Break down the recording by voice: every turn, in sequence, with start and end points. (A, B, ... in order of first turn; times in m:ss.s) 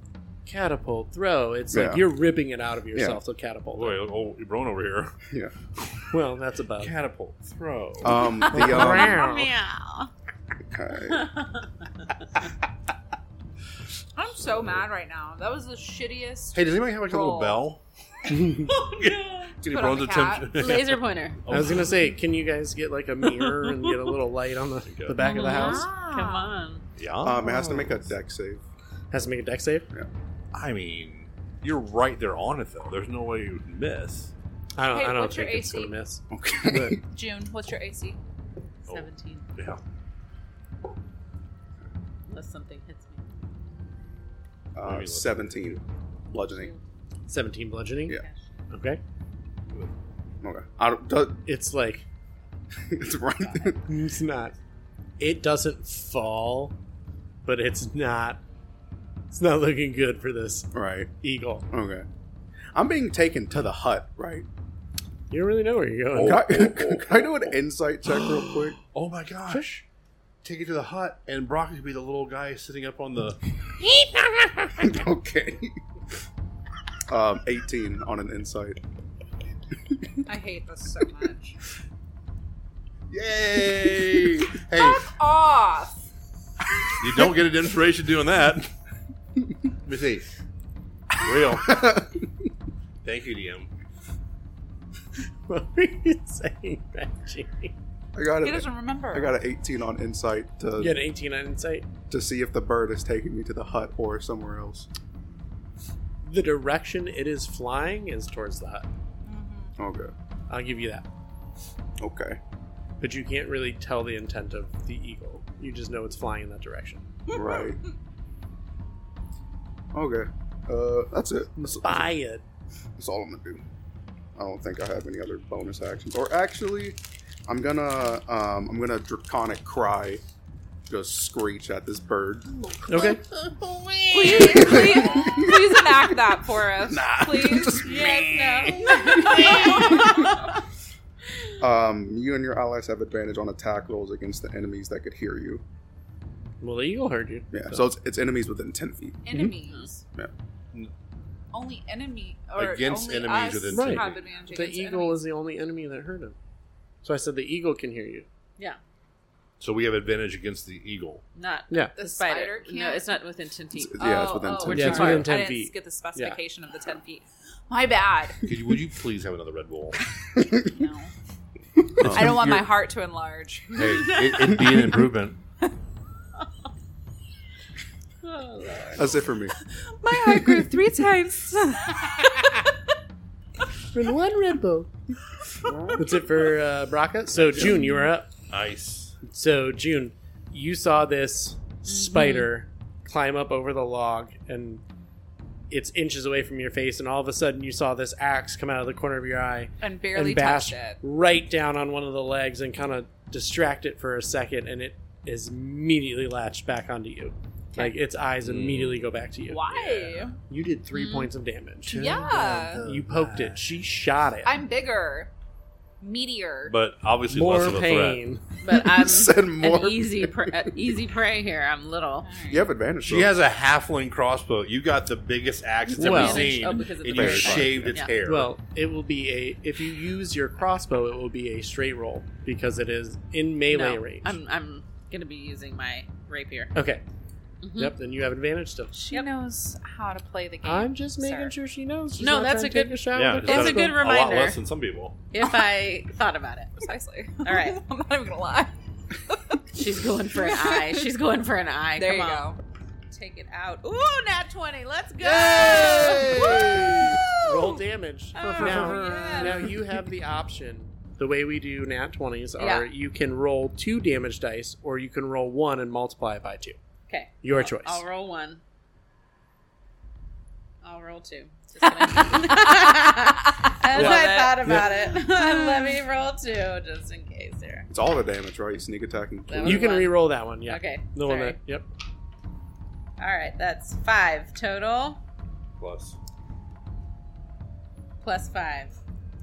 0:00.4-0:04.0 A
0:01.7-0:02.1 B
0:02.9-0:03.2 B
0:03.7-0:05.2 C
0:05.3-0:05.5 B
0:06.1-0:06.9 A
0:06.8-0:08.4 C
0:08.0-0:09.2 B
0:08.5-0:09.5 A
0:08.5-0:10.1 D
0:10.7-0:11.3 B
0:11.1-0:11.7 D
0:14.1-0:17.6 E
0:16.5-0:17.8 C
0:18.3-0:18.6 A
0:18.3-0:22.0 C
0:19.6-0:20.5 E
0:20.5-0:21.4 D
0:21.5-0:25.9 A
0:23.2-0:24.1 D
0:24.8-0:25.2 C
0:25.2-0:26.5 E
0:25.2-0:26.8 D
0:27.0-0:27.9 C
0:27.2-0:28.6 B
0:29.1-0:29.9 A
0:30.5-0:34.3 C
0:34.8-0:37.0 A
0:34.9-0:35.9 E
0:36.3-0:37.0 B
0:37.0-0:38.2 E
0:38.9-0:39.5 D
0:38.9-0:39.8 C
0:42.3-0:43.2 D
0:44.7-0:46.7 B
0:44.8-0:45.8 C
0:46.5-0:46.8 D
0:47.3-0:48.2 A
0:48.1-0:48.5 D
0:48.7-0:49.0 A
0:50.4-0:51.4 B
0:51.4-0:52.0 A
0:52.8-0:53.8 B
0:53.8-0:54.5 A
0:55.2-0:56.7 A
0:57.4-0:58.4 A
0:59.3-1:01.7 A
1:00.7-1:01.1 B
1:01.7-1:02.1 B
1:02.7-1:04.5 B
1:05.3-1:06.5 A
1:06.1-1:07.5 C
1:06.2-1:08.8 B
1:08.2-1:09.8 C
1:10.4-1:15.0 C
1:14.8-1:15.8 B
1:17.1-1:18.8 B
1:20.2-1:21.6 E
1:23.1-1:25.1 C
1:24.7-1:26.0 E
1:27.0-1:28.7 C
1:29.8-1:30.3 C
1:31.2-1:31.9 C
1:31.6-1:32.2 B
1:33.0-1:33.7 C
1:35.5-1:37.7 A
1:38.1-1:41.0 B
1:38.4-1:39.3 E
1:40.8-1:41.9 A
1:42.1-1:44.9 B
1:46.2-1:48.9 A
1:49.2-1:49.7 E
1:49.8-1:50.1 B
1:50.5-1:51.0 A
1:52.0-1:52.4 B
1:53.0-1:57.0 A
1:57.3-1:57.8 B
1:57.3-1:57.6 E
1:59.9-2:02.1 B
2:01.6-2:02.4 A
2:03.0-2:03.6 B
2:04.4-2:10.2 B
2:10.9-2:13.1 B
2:12.9-2:13.2 A
2:13.2-2:15.3 D
2:14.1-2:20.3 E
2:14.2-2:16.2 B
2:16.7-2:20.4 B
2:17.8-2:20.6 D
2:21.6-2:25.6 B
2:26.6-2:27.9 A
2:27.5-2:29.2 B
2:29.2-2:30.0 E
2:29.3-2:29.6 A
2:31.5-2:35.2 E
2:32.5-2:34.2 C
2:33.7-2:36.3 A
2:37.0-2:38.3 A
2:39.6-2:41.2 C
2:41.3-2:45.4 D
2:42.0-2:43.2 E
2:43.7-2:45.3 B
2:44.0-2:48.5 E
2:44.7-2:46.4 A
2:48.4-2:50.0 C
2:50.3-2:50.6 B
2:50.5-2:51.1 E
2:51.8-2:52.6 B
2:52.0-2:52.7 C
2:52.1-2:53.8 E
2:53.7-2:55.4 C
2:53.8-2:54.6 D
2:58.2-2:59.3 D
2:59.0-2:59.5 B
2:59.9-3:02.5 E
3:00.2-3:00.7 B
3:03.9-3:04.9 A
3:05.9-3:08.3 A
3:07.8-3:08.0 E
3:08.5-3:09.2 C
3:09.2-3:14.8 A
3:11.9-3:12.5 E
3:15.7-3:29.6 A
3:19.8-3:21.0 E
3:28.4-3:29.1 C
3:29.5-3:30.4 E
3:29.7-3:30.3 C
3:30.5-3:34.6 A
3:30.9-3:31.3 D
3:31.9-3:33.8 C
3:31.9-3:32.8 E
3:34.4-3:35.3 E
3:36.0-3:36.8 E
3:36.7-3:38.2 C
3:37.3-3:38.4 A
3:38.6-3:42.3 D
3:38.7-3:40.9 B
3:42.2-3:42.7 E
3:42.5-3:43.3 B
3:43.0-3:48.5 C
3:45.9-3:48.1 D
3:46.0-3:46.5 A
3:47.1-3:48.1 B
3:48.2-3:54.4 A
3:53.7-3:56.7 D
3:56.7-3:57.0 A
3:57.6-3:57.9 D
3:57.8-3:59.0 A
3:58.9-4:01.5 E
4:00.6-4:04.0 A
4:02.2-4:04.6 D
4:03.1-4:05.2 C
4:05.3-4:06.9 D
4:06.8-4:08.7 E
4:07.4-4:07.8 D
4:09.3-4:09.6 E
4:09.7-4:12.5 D
4:10.4-4:11.0 E
4:12.0-4:12.6 E
4:13.1-4:17.4 D
4:15.3-4:17.2 C
4:15.6-4:16.6 E
4:17.4-4:26.8 A
4:18.3-4:19.8 D
4:18.5-4:19.7 E
4:22.6-4:22.9 D
4:27.1-4:28.6 D
4:27.4-4:28.0 A
4:30.8-4:37.9 D
4:31.8-4:36.0 E
4:33.9-4:34.9 A
4:37.9-4:39.9 B
4:39.5-4:41.6 D
4:39.6-4:41.9 A
4:43.2-4:45.2 D
4:45.8-4:46.2 C
4:48.2-4:49.0 D